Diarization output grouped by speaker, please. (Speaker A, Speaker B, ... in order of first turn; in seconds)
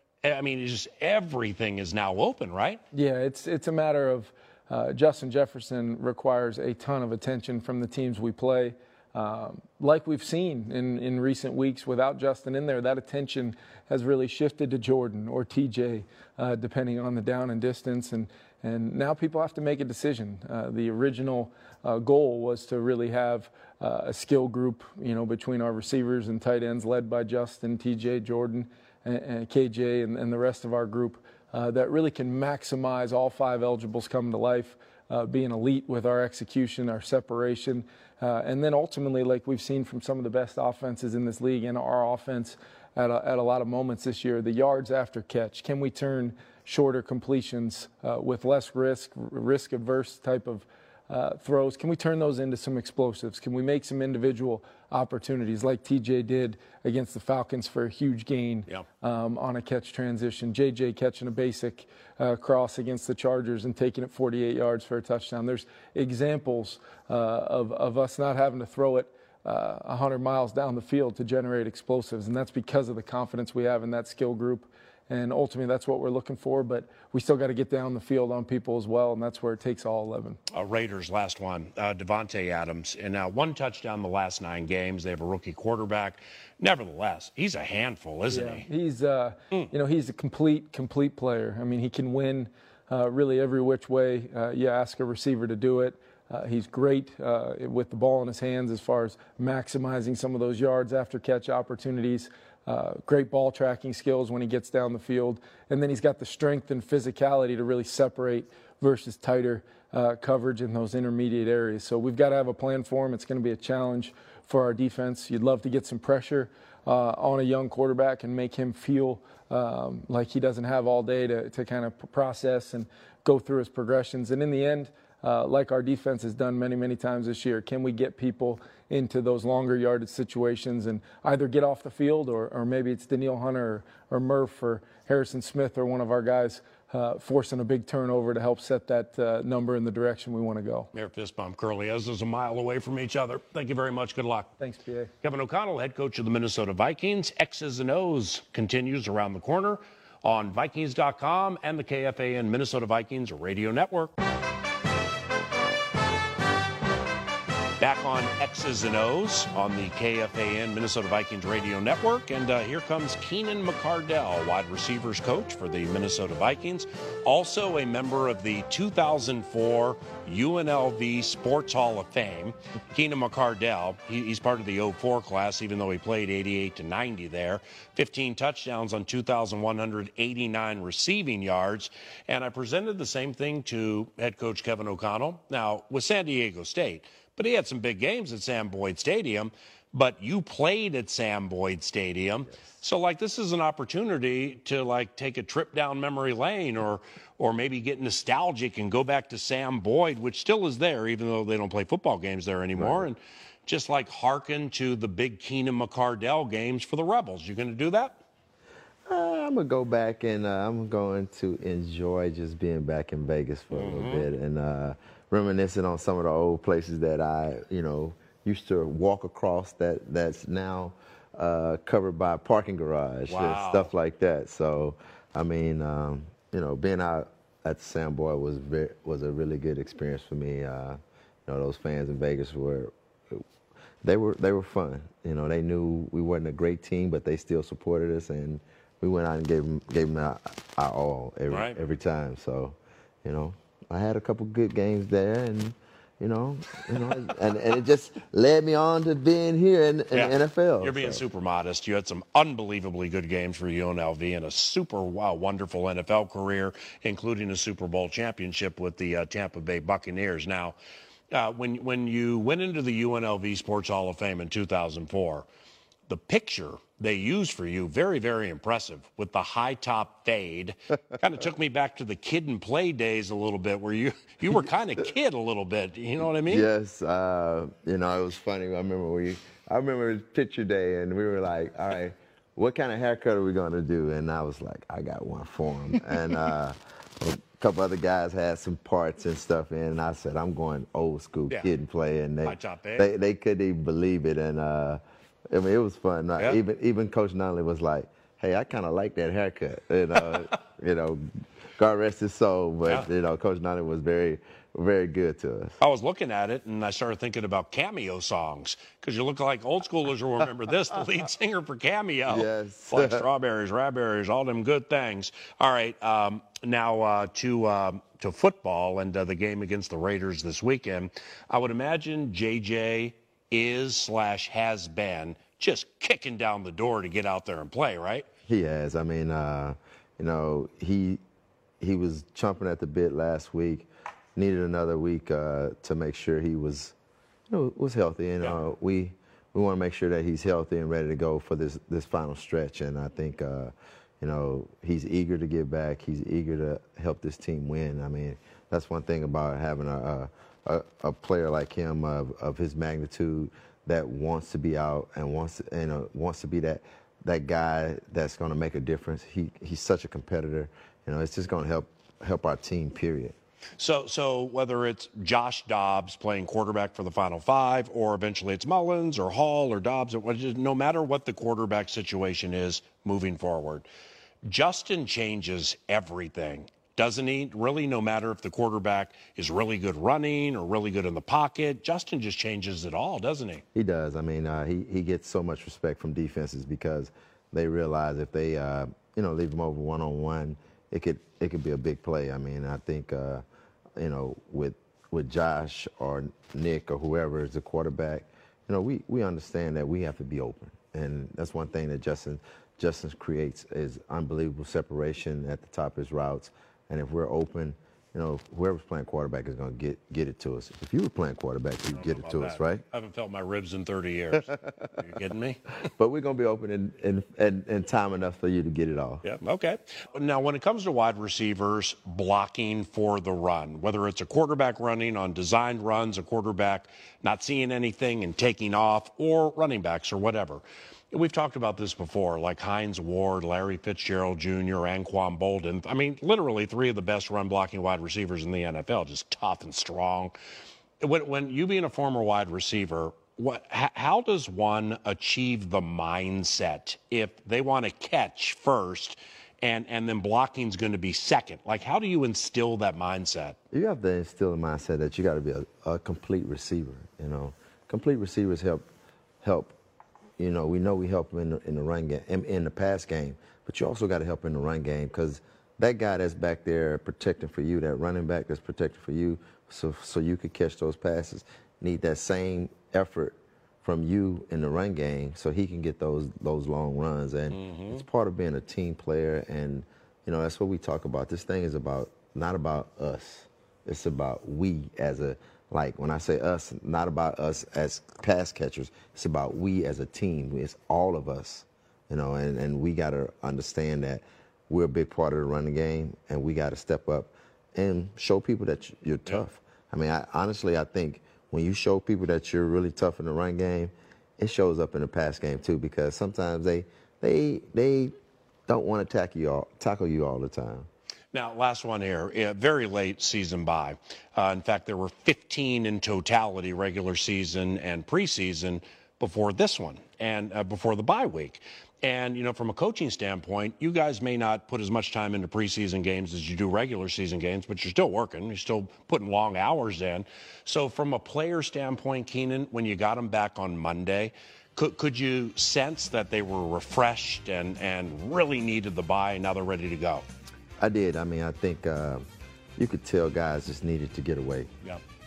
Speaker A: 0.2-2.8, 80.5-88.6, 140.9-144.5, 145.2-154.1, 157.8-208.2, 213.7-214.3, 223.3-223.9, 241.5-241.8, 250.1-260.8, 261.3-265.5, 266.1-276.7, 292.4-293.1, 305.8-328.3, 363.8-373.9, 374.4-383.6, 411.9-415.7, 419.2-440.3, 441.0-453.6, 477.5-478.0, 511.3-540.2
Speaker B: 2.9-80.4, 88.3-140.9, 144.6-145.1
Speaker C: 202.8-203.1, 209.1-233.4, 234.0-251.2, 276.5-301.2, 301.8-305.8, 312.2-313.2, 328.5-331.2, 331.8-336.9, 337.5-363.4, 383.7-393.4, 394.0-412.8, 416.0-419.2, 453.7-458.9, 459.4-459.8, 460.4-508.1, 508.7-510.9, 540.8-542.2, 542.8-544.7